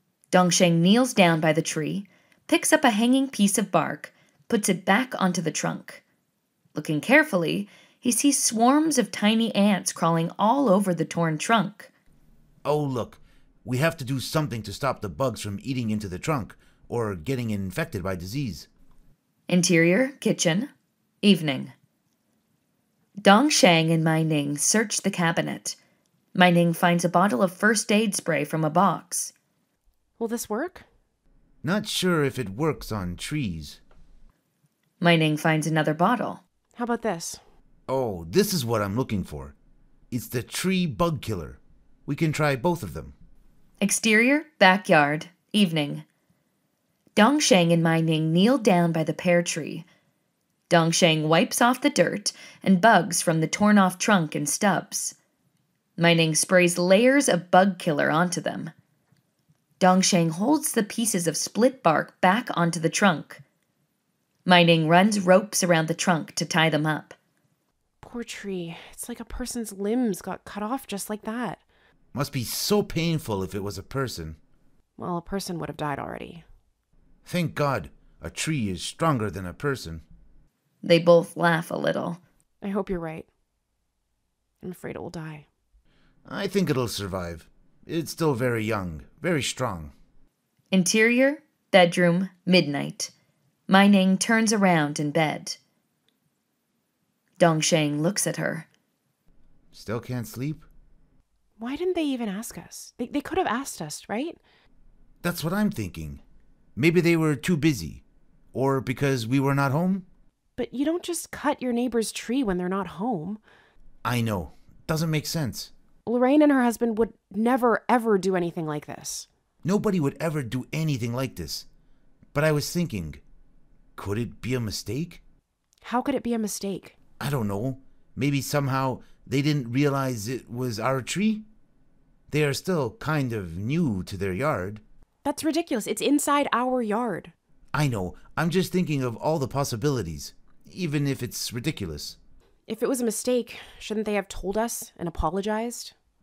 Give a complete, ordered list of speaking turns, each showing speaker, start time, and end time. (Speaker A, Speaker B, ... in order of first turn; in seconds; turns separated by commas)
Speaker A: 0.3-6.0, Speaker A: 6.7-11.9, Speaker B: 12.6-18.7, Speaker A: 19.5-20.7, Speaker A: 21.2-21.7, Speaker A: 23.2-25.8, Speaker A: 26.3-29.3, Speaker C: 30.2-30.9, Speaker B: 31.6-33.8, Speaker A: 35.0-36.4, Speaker C: 36.7-37.4, Speaker B: 37.9-39.5, Speaker B: 40.1-43.1, Speaker A: 43.8-46.0, Speaker A: 47.1-49.9, Speaker A: 50.7-55.1, Speaker A: 56.0-58.7, Speaker A: 59.8-63.4, Speaker A: 64.5-67.1, Speaker C: 68.0-71.6, Speaker B: 72.1-74.4, Speaker C: 75.0-76.4, Speaker B: 77.2-80.0, Speaker A: 80.8-82.2, Speaker C: 82.6-83.3, Speaker C: 84.6-85.5, Speaker B: 86.2-89.9, Speaker A: 90.7-93.1, Speaker A: 93.7-95.6, Speaker A: 97.4-98.7, Speaker B: 99.7-100.7, Speaker C: 101.6-104.4, Speaker B: 105.2-106.2, Speaker B: 106.8-110.1, Speaker C: 110.6-113.4, Speaker B: 114.0-115.7, Speaker C: 116.0-119.3, Speaker B: 119.6-121.7, Speaker B: 122.3-123.2, Speaker B: 124.0-125.2, Speaker C: 125.8-127.0, Speaker B: 127.2-131.4, Speaker B: 132.3-134.8, Speaker C: 135.2-137.3, Speaker B: 137.7-142.2, Speaker C: 142.7-145.9